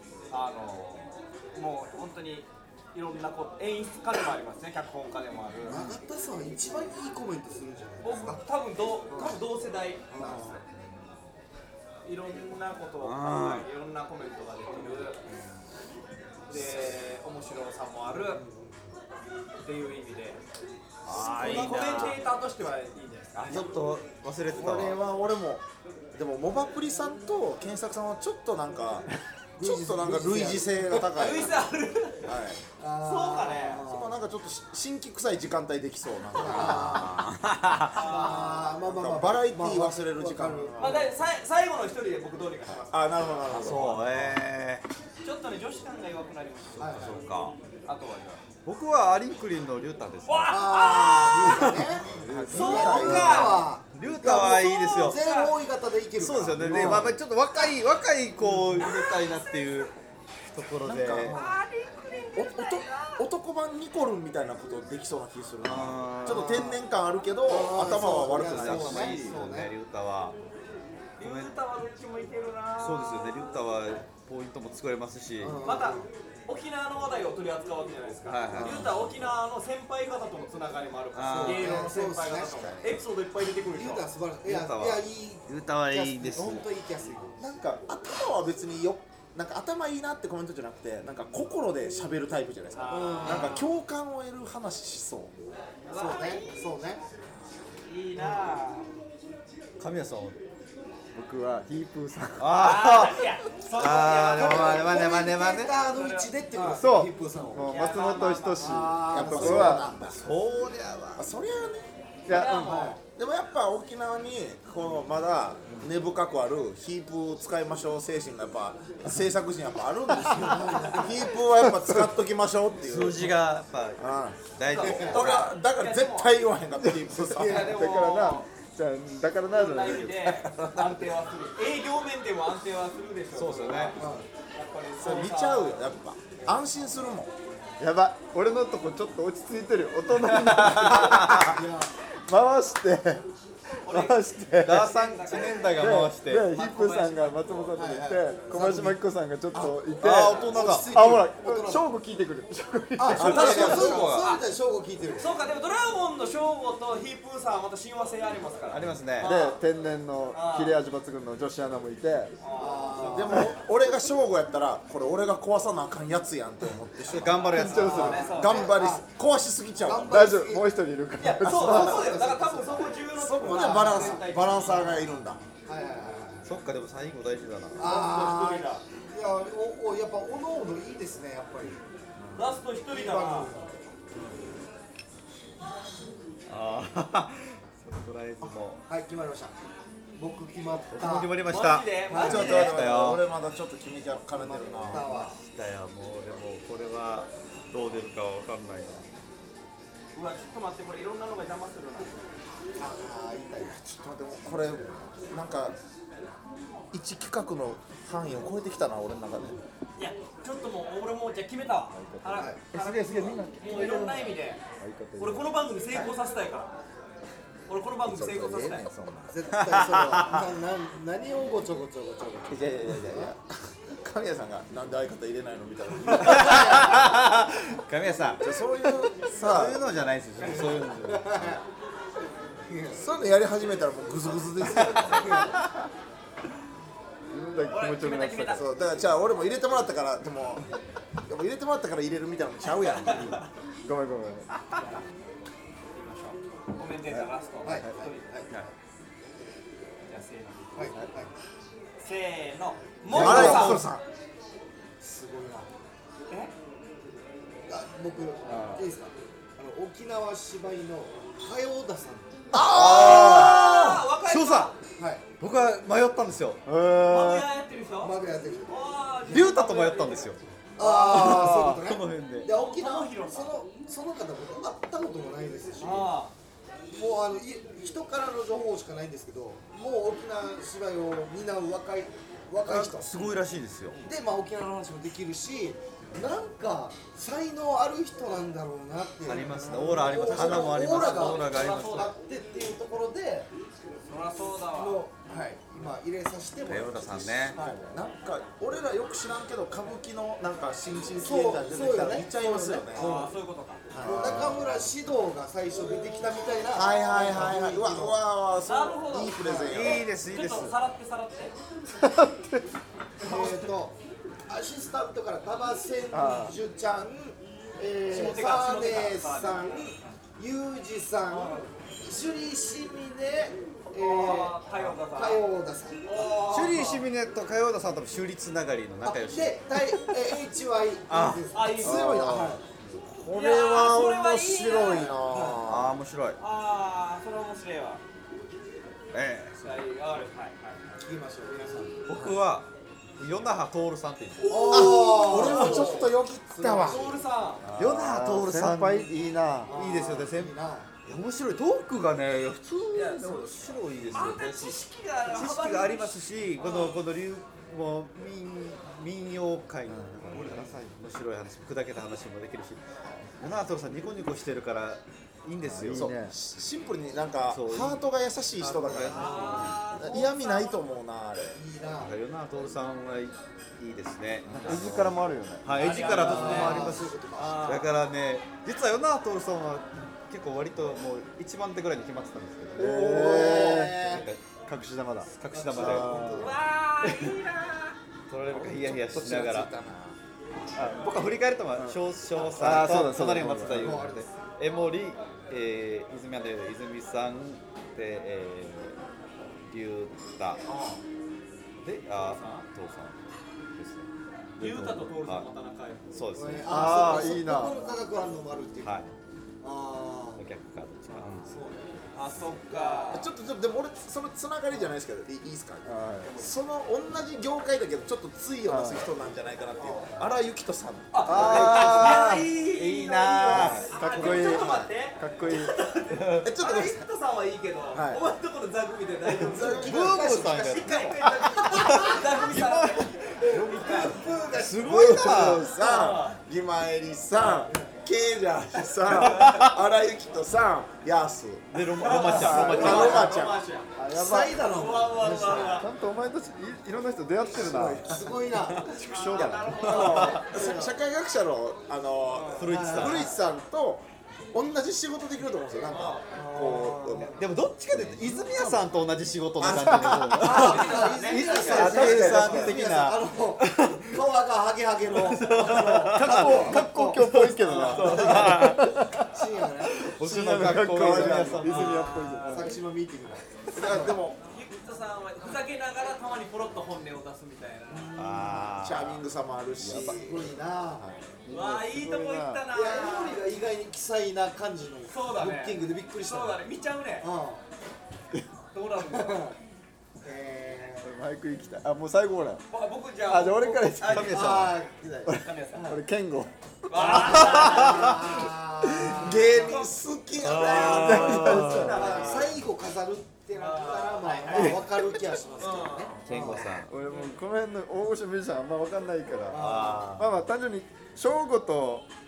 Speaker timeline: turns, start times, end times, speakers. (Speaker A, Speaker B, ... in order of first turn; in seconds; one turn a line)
Speaker A: 0.3-5.9
Speaker B: 5.6-8.4
Speaker A: 8.0-10.6
Speaker B: 9.1-9.4
Speaker B: 10.1-10.6
Speaker A: 12.0-15.2
Speaker C: 13.0-13.6
Speaker A: 16.5-18.4
Speaker B: 18.1-18.9
Speaker A: 19.6-20.4
Speaker C: 21.0-22.2
Speaker A: 21.1-23.7
Speaker C: 23.3-25.0
Speaker D: 24.5-31.6
Speaker B: 29.6-31.2
Speaker A: 31.1-32.4
Speaker D: 32.2-32.6
Speaker B: 32.8-34.2
Speaker A: 33.0-33.8
Speaker D: 33.8-37.1
Speaker B: 36.3-37.2
Speaker C: 36.4-38.0
Speaker A: 37.9-38.7
Speaker B: 38.0-41.0
Speaker D: 38.8-41.1
Speaker A: 40.8-43.0
Speaker D: 42.9-44.4
Speaker C: 43.5-44.9
Speaker A: 45.2-47.3
Speaker C: 46.8-47.5
Speaker B: 46.8-47.1
Speaker A: 47.8-48.4
Speaker C: 48.6-50.6
Speaker A: 50.2-51.8
Speaker B: 50.5-57.2
Speaker C: 51.4-51.9
Speaker E: 52.1-53.0
Speaker D: 52.2-53.6
Speaker A: 52.5-53.7
Speaker C: 53.1-55.2
Speaker A: 54.4-55.5
Speaker C: 56.2-59.9
Speaker E: 56.6-57.1
Speaker B: 58.4-58.9
Speaker A: 58.8-59.4
Speaker C: 60.5-61.4
Speaker D: 60.8-61.3
Speaker B: 61.2-61.6
Speaker A: 61.2-63.2
Speaker D: 62.3-69.3
Speaker C: 65.6-66.8
Speaker B: 66.3-66.7
Speaker B: 67.4-69.7
Speaker C: 68.1-70.3
Speaker A: 71.2-73.5
Speaker C: 71.2-71.5
Speaker C: 72.8-75.6
Speaker B: 75.4-76.1
Speaker A: 75.6-84.1
Speaker C: 78.2-79.2
Speaker D: 78.5-79.0
Speaker C: 81.1-81.9
Speaker B: 81.3-82.7
Speaker D: 82.5-83.0
Speaker B: 83.7-87.4
Speaker C: 84.4-86.7
Speaker D: 87.4-95.3
Speaker A: 92.7-93.7
Speaker B: 92.9-93.6
Speaker A: 95.9-96.6
Speaker B: 95.9-97.0
Speaker A: 97.8-98.9
Speaker C: 99.8-100.4
Speaker E: 101.1-102.5
Speaker C: 102.4-105.7
Speaker A: 102.5-105.0
Speaker B: 104.2-107.8
Speaker A: 105.8-106.8
Speaker E: 106.7-109.9
Speaker A: 107.7-108.9
Speaker B: 108.6-110.0
Speaker D: 109.1-110.2
Speaker C: 110.1-111.3
Speaker D: 111.2-111.9
Speaker E: 112.2-112.8
Speaker A: 112.3-113.0
Speaker B: 112.6-113.0
Speaker D: 113.0-123.3
Speaker B: 120.3-121.2
Speaker C: 122.8-125.5
Speaker D: 124.0-127.7
Speaker A: 124.7-126.5
Speaker B: 124.8-125.3
Speaker B: 127.3-127.9
Speaker A: 127.3-128.5
Speaker E: 127.5-130.5
Speaker A: 129.5-135.9
Speaker D: 130.5-131.0
Speaker C: 133.3-134.0
Speaker B: 134.0-134.3
Speaker D: 135.0-137.3
Speaker E: 137.8-141.6
Speaker C: 140.2-141.5
Speaker B: 140.7-141.9
Speaker E: 142.2-143.2
Speaker A: 143.8-147.7
Speaker E: 143.8-144.9
Speaker C: 144.6-146.5
Speaker E: 145.8-153.7
Speaker B: 147.7-149.0
Speaker C: 150.0-150.9
Speaker B: 150.5-151.8
Speaker B: 153.0-155.3
Speaker C: 153.1-154.3
Speaker A: 153.2-154.4
Speaker A: 155.2-159.6
Speaker C: 158.7-159.3
Speaker E: 159.2-162.3
Speaker A: 160.3-160.8
Speaker A: 162.4-163.3
Speaker B: 162.5-163.6
Speaker D: 163.0-170.2
Speaker C: 167.0-168.3
Speaker A: 167.3-168.7
Speaker E: 167.5-168.2
Speaker B: 167.6-169.1
Speaker B: 169.8-174.8
Speaker E: 170.1-172.0
Speaker A: 171.2-175.0
Speaker D: 173.2-175.4
Speaker B: 175.6-176.5
Speaker C: 176.4-177.9
Speaker B: 177.8-181.8
Speaker A: 177.8-178.8
Speaker D: 182.2-182.5
Speaker A: 182.3-183.5
Speaker B: 182.9-183.8
Speaker C: 186.5-188.8
Speaker B: 188.4-189.5
Speaker B: 190.1-191.3
Speaker C: 190.9-193.2
Speaker A: 191.4-193.1
Speaker B: 192.1-192.6
Speaker D: 192.1-195.1
Speaker B: 194.3-195.4
Speaker C: 194.9-199.1
Speaker A: 200.1-202.3
Speaker B: 202.8-203.8
Speaker D: 203.7-205.8
Speaker D: 206.9-209.6
Speaker A: 210.0-214.6
Speaker E: 211.9-215.6
Speaker B: 212.4-212.6
Speaker A: 215.2-216.8
Speaker A: 217.7-218.8
Speaker D: 218.0-219.3
Speaker B: 219.3-223.3
Speaker C: 219.5-220.4
Speaker C: 222.5-223.3
Speaker D: 223.3-226.8
Speaker C: 226.1-228.4
Speaker B: 226.2-226.9
Speaker D: 228.4-229.8
Speaker C: 229.2-231.6
Speaker B: 230.4-231.6
Speaker B: 232.7-233.0
Speaker D: 232.9-235.5
Speaker B: 234.8-235.6
Speaker C: 234.9-235.4
Speaker E: 237.3-238.7
Speaker A: 237.7-238.6
Speaker D: 238.5-243.4
Speaker A: 242.8-243.5
Speaker E: 243.8-244.5
Speaker A: 244.7-245.0
Speaker A: 245.9-248.2
Speaker B: 247.6-248.5
Speaker A: 250.0-250.9
Speaker B: 250.7-251.3
Speaker A: 252.0-253.8
Speaker C: 253.1-253.9
Speaker D: 253.1-254.0
Speaker E: 253.1-253.6
Speaker B: 253.2-253.6
Speaker B: 255.0-255.7
Speaker B: 257.7-262.4
Speaker E: 258.4-258.8
Speaker D: 262.5-264.1
Speaker C: 262.6-264.7
Speaker A: 262.8-264.8
Speaker B: 264.9-265.2
Speaker C: 265.4-266.6
Speaker E: 266.6-267.5
Speaker A: 267.0-270.4
Speaker B: 268.0-268.8
Speaker C: 269.3-272.5
Speaker B: 270.8-276.1
Speaker E: 271.1-271.5
Speaker A: 272.5-273.5
Speaker A: 275.8-276.3
Speaker B: 276.9-283.1
Speaker C: 282.6-284.0
Speaker B: 284.0-293.5
Speaker C: 289.2-292.1
Speaker A: 289.7-292.1
Speaker A: 294.1-295.0
Speaker B: 294.7-297.8
Speaker C: 296.6-297.6
Speaker D: 297.5-303.2
Speaker B: 301.2-303.3
Speaker A: 302.9-304.4
Speaker B: 303.9-308.2
Speaker E: 304.0-304.8
Speaker D: 304.0-304.4
Speaker A: 305.8-306.9
Speaker D: 306.7-310.1
Speaker A: 308.6-311.6
Speaker B: 309.4-309.8
Speaker C: 309.6-310.7
Speaker E: 312.0-312.7
Speaker B: 313.2-326.1
Speaker A: 313.2-313.7
Speaker E: 316.1-316.6
Speaker A: 318.1-320.1
Speaker A: 321.3-321.7
Speaker A: 323.9-325.4
Speaker A: 326.0-327.1
Speaker C: 326.5-330.1
Speaker B: 329.0-332.6
Speaker C: 331.1-331.4
Speaker A: 331.5-332.3
Speaker E: 331.9-332.6
Speaker D: 332.2-332.5
Speaker D: 333.1-336.0
Speaker A: 333.3-335.2
Speaker B: 335.2-335.6
Speaker C: 335.6-336.4
Speaker A: 336.4-338.0
Speaker C: 339.1-339.6
Speaker A: 339.6-341.0
Speaker B: 341.0-342.1
Speaker C: 342.1-344.5
Speaker A: 344.4-346.1
Speaker B: 344.5-347.1
Speaker D: 344.7-347.1
Speaker A: 346.8-347.7
Speaker E: 347.6-349.8
Speaker C: 347.7-349.1
Speaker B: 349.6-350.9
Speaker C: 349.7-350.5
Speaker C: 351.0-362.8
Speaker A: 352.9-357.0
Speaker E: 359.9-360.9
Speaker C: 363.4-366.1
Speaker E: 365.6-366.3
Speaker D: 365.9-371.6
Speaker C: 367.5-368.0
Speaker C: 368.6-369.8
Speaker A: 369.1-370.8
Speaker B: 369.1-370.1
Speaker B: 371.5-372.1
Speaker C: 372.0-384.4
Speaker D: 374.5-375.0
Speaker E: 374.6-375.7
Speaker B: 375.7-377.7
Speaker A: 375.7-377.9
Speaker E: 376.6-376.8
Speaker E: 382.8-386.6
Speaker B: 382.8-384.2
Speaker C: 385.4-386.2
Speaker B: 385.5-386.6
Speaker A: 386.3-388.0
Speaker C: 387.0-387.3
Speaker C: 388.3-389.7
Speaker B: 388.6-389.8
Speaker D: 389.7-390.2
Speaker C: 390.8-399.0
Speaker E: 391.8-394.1
Speaker B: 392.8-393.1
Speaker B: 393.6-394.3
Speaker C: 399.7-400.6
Speaker B: 400.6-401.0
Speaker C: 401.8-404.1
Speaker A: 402.1-402.7
Speaker C: 404.6-405.5
Speaker A: 404.6-406.1
Speaker C: 406.1-407.4
Speaker B: 406.3-409.0
Speaker E: 406.7-407.8
Speaker C: 408.8-409.1
Speaker B: 409.6-410.4
Speaker C: 410.4-411.5
Speaker B: 411.2-413.2
Speaker A: 412.1-413.3
Speaker D: 413.1-421.8
Speaker E: 415.8-416.3
Speaker A: 416.2-416.5
Speaker E: 418.7-419.1
Speaker B: 419.8-420.2
Speaker A: 421.1-434.2
Speaker E: 421.3-422.5
Speaker C: 421.3-424.7
Speaker E: 423.5-425.7
Speaker D: 426.4-427.0
Speaker D: 427.9-428.2
Speaker B: 429.4-431.2
Speaker D: 429.5-430.0
Speaker C: 429.7-431.1
Speaker C: 431.7-432.8
Speaker B: 431.8-432.4
Speaker E: 432.4-433.1
Speaker B: 433.4-435.0
Speaker C: 434.6-435.6
Speaker D: 434.7-443.6
Speaker E: 434.8-435.6
Speaker A: 435.6-436.4
Speaker B: 437.4-437.9
Speaker C: 439.3-439.7
Speaker C: 441.7-443.3
Speaker A: 442.0-443.9
Speaker B: 442.0-443.2
Speaker E: 442.2-443.2
Speaker E: 443.9-444.6
Speaker B: 444.1-445.8
Speaker A: 444.7-445.9
Speaker E: 445.2-448.2
Speaker B: 447.5-450.9
Speaker C: 448.6-450.4
Speaker A: 448.8-450.5
Speaker E: 449.0-449.8
Speaker D: 450.3-457.4
Speaker A: 452.3-452.7
Speaker C: 452.5-453.3
Speaker B: 452.6-453.4
Speaker A: 455.9-456.9
Speaker B: 456.3-457.3
Speaker C: 456.5-464.1
Speaker D: 458.0-458.8
Speaker D: 459.6-460.4
Speaker E: 459.7-460.8
Speaker B: 460.4-470.1
Speaker A: 460.4-462.1
Speaker E: 461.6-462.8
Speaker D: 462.0-462.5
Speaker C: 465.1-469.1
Speaker E: 466.1-469.4
Speaker A: 467.7-468.4
Speaker C: 469.9-472.5
Speaker E: 470.1-472.8
Speaker D: 470.9-471.7
Speaker A: 471.6-472.7
Speaker B: 472.5-474.2
Speaker D: 473.7-474.4
Speaker A: 474.4-478.1
Speaker B: 477.9-478.8
Speaker C: 478.1-479.2
Speaker D: 478.8-480.5
Speaker E: 479.8-480.4
Speaker B: 479.9-481.1
Speaker E: 481.0-482.7
Speaker A: 481.5-483.4
Speaker B: 482.7-486.6
Speaker A: 485.1-487.3
Speaker B: 487.2-487.6
Speaker A: 488.7-489.5
Speaker B: 489.0-489.6
Speaker B: 490.2-491.1
Speaker E: 491.0-492.6
Speaker A: 492.7-494.6
Speaker E: 493.2-494.7
Speaker C: 494.0-494.7
Speaker B: 494.1-496.0
Speaker E: 495.2-499.2
Speaker A: 495.4-496.0
Speaker A: 496.9-498.2
Speaker B: 496.9-499.8
Speaker C: 497.4-497.9
Speaker D: 499.1-502.0
Speaker A: 499.5-502.5
Speaker C: 500.4-502.6
Speaker E: 500.8-502.0
Speaker B: 501.8-506.7
Speaker A: 503.5-504.8
Speaker A: 505.6-507.3
Speaker C: 506.2-506.9
Speaker E: 506.9-512.1
Speaker B: 509.5-510.1
Speaker C: 509.5-510.3